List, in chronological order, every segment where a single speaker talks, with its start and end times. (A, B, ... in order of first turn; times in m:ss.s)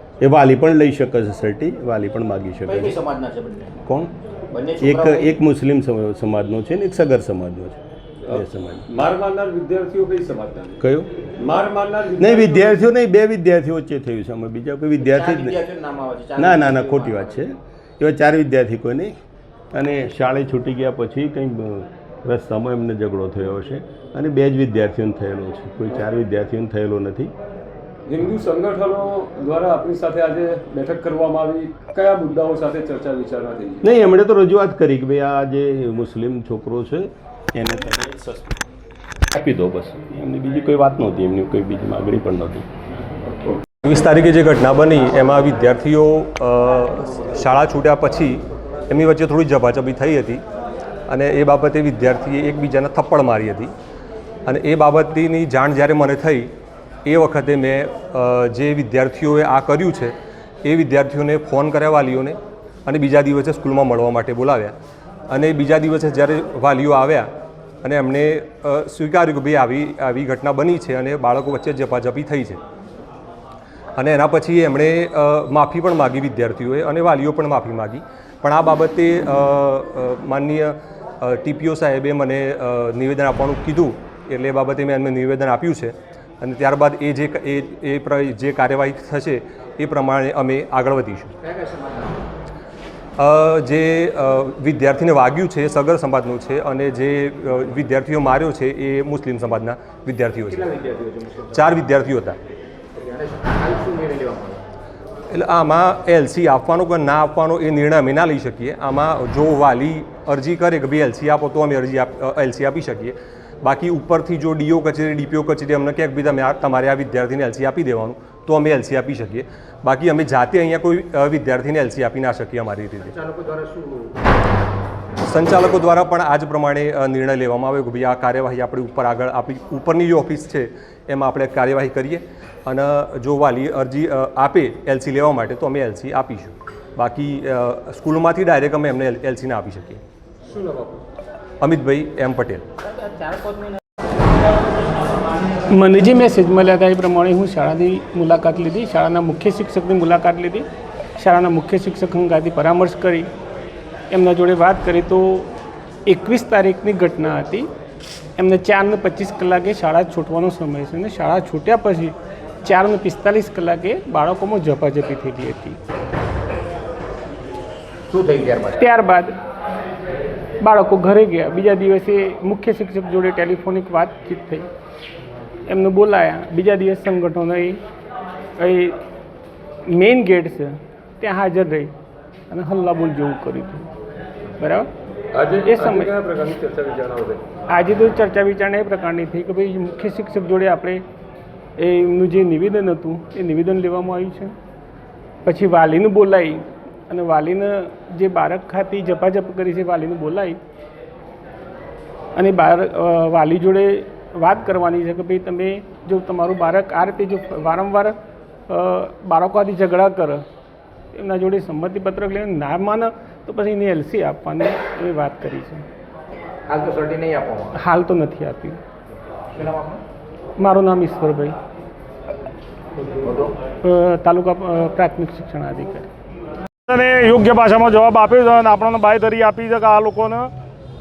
0:00.2-0:03.0 A
0:02.7-0:03.7 B
0:03.8-0:04.1 A
0:04.5-0:05.4 B
0:04.8-0:08.8 A
0:08.3-0:10.8 C
0:10.8-0:11.1 A
0:11.4-0:12.8 C
0:12.2-0:15.6 A
0:15.0-0:17.4 B
0:16.4-0:19.1 A
0:19.7-0:27.3 A
0:28.1-0:33.8 C
0:33.8-0:38.5 A
0:39.3-0:42.7 A
0:43.8-0:50.4 D
0:51.1-0:53.7 D
0:54.5-0:56.5 D
0:57.0-1:04.8 D
1:05.3-1:07.3 D
1:07.8-1:12.6 D
1:14.0-1:31.3 D
1:31.4-1:32.2 B
1:33.2-1:40.7 D
1:40.5-1:41.8 B
1:41.5-1:42.4 D
1:43.0-1:44.6 B
1:45.3-2:03.2 D
2:03.0-2:04.1 B
2:05.2-2:20.0 D
2:20.5-2:21.0 C
2:21.6-2:22.6 D
2:25.7-2:33.3 E
2:34.1-2:35.5 E
2:36.1-2:37.7 E
2:38.4-2:45.8 E
2:48.1-2:48.8 B
2:48.8-2:49.4 E
2:50.6-2:54.7 E
2:55.7-2:57.8 E
2:58.6-2:59.0 E
2:59.9-3:01.9 E
3:02.5-3:03.8 E
3:04.6-3:04.9 E
3:05.3-3:07.4 C
3:05.6-3:06.2 E
3:07.7-3:11.0 E
3:11.8-3:14.5 E
3:15.4-3:20.6 E
3:22.4-3:28.2 E
3:28.7-3:30.4 E
3:31.1-3:35.8 E
3:36.7-3:37.7 B
3:37.7-3:38.8 E
3:39.6-3:40.0 B
3:40.6-3:41.6 E
3:43.2-3:43.5 B
3:43.8-3:46.1 E
3:46.9-3:50.5 F